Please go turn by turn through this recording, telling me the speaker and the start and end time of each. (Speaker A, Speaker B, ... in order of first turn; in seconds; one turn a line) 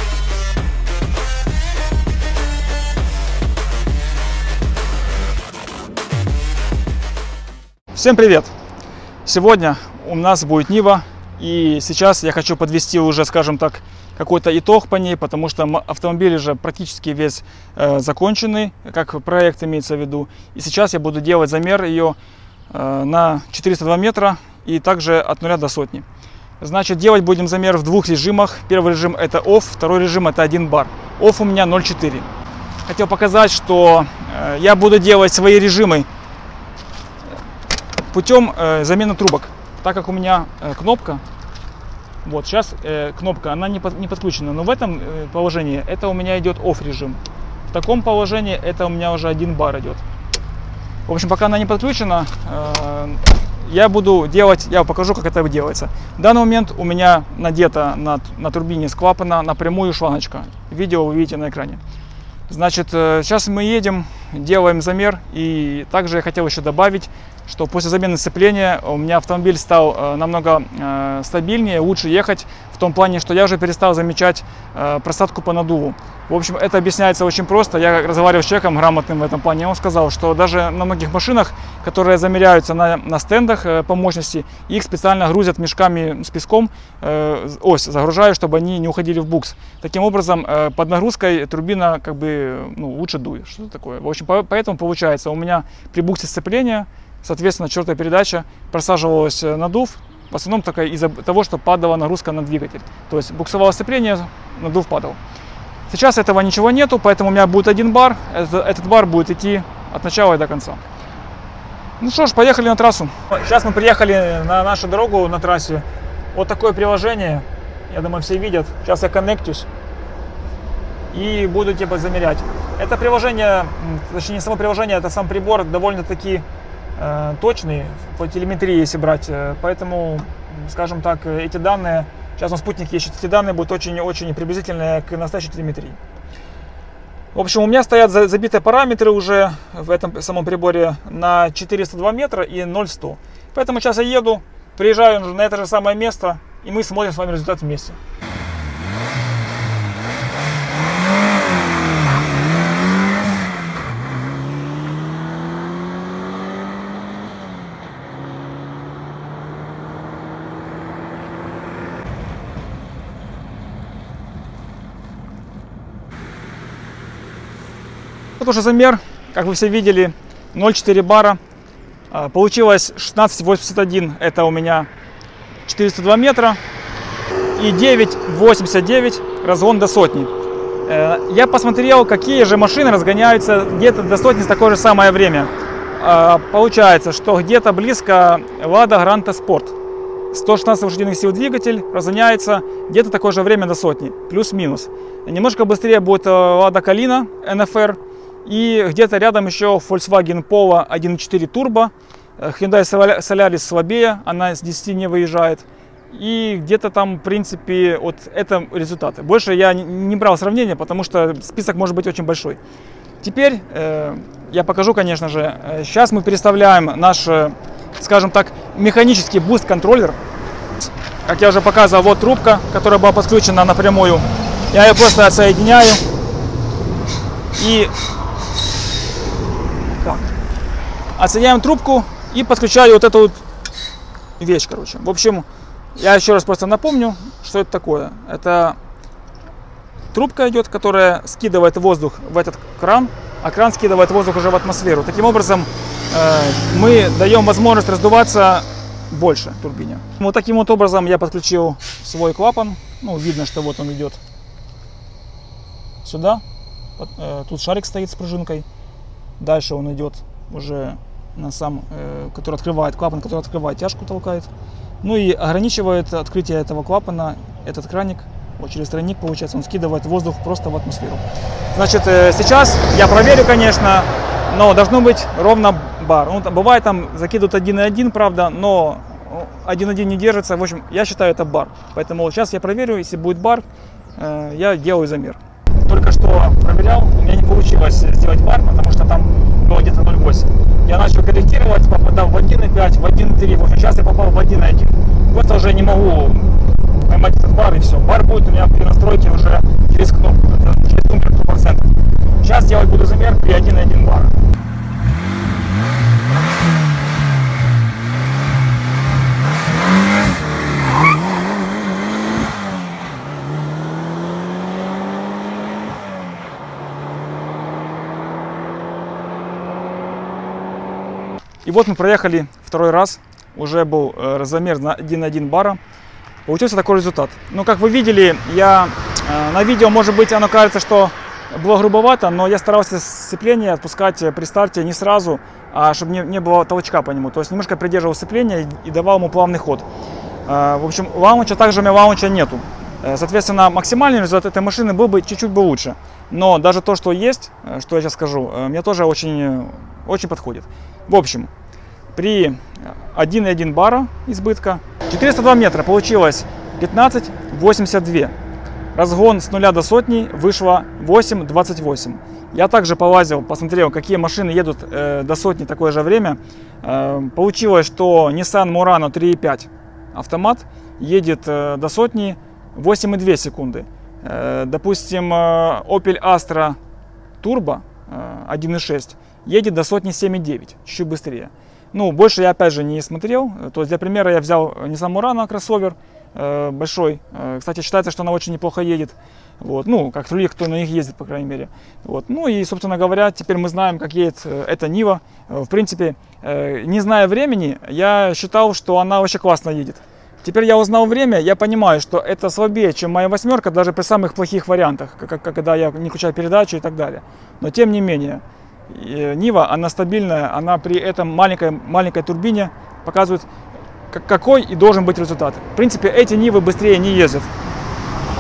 Speaker A: 7.9-8.5
Speaker A: 9.2-22.1
Speaker A: 22.7-26.0
Speaker A: 26.6-32.3
Speaker A: 32.9-36.1
Speaker A: 38.1-41.2
Speaker A: 42.2-50.0
Speaker A: 51.1-61.8
Speaker A: 62.5-105.2
Speaker A: 105.9-110.8
Speaker A: 112.0-119.7
Speaker A: 121.1-126.4
Speaker A: 127.0-136.0
Speaker A: 137.3-148.0
Speaker A: 168.4-171.4
Speaker A: 172.1-174.9
Speaker A: 175.7-176.6
Speaker A: 177.5-180.3
Speaker A: 180.8-189.7
Speaker A: 190.3-212.6
Speaker A: 213.2-220.2
Speaker A: 221.2-226.0
Speaker A: 227.6-227.9
Speaker A: 231.2-233.4
Speaker A: 234.4-238.8
Speaker A: 240.1-254.2
Speaker A: 256.0-256.4
Speaker A: 257.0-258.6
Speaker A: 259.4-264.5
Speaker A: 265.0-283.6
Speaker A: 284.1-304.4
Speaker A: 321.6-325.8
Speaker A: 326.4-339.9
Speaker A: 340.4-351.5
Speaker A: 352.1-358.3
Speaker A: 358.9-376.8
Speaker A: 377.4-413.5
Speaker A: 414.1-417.5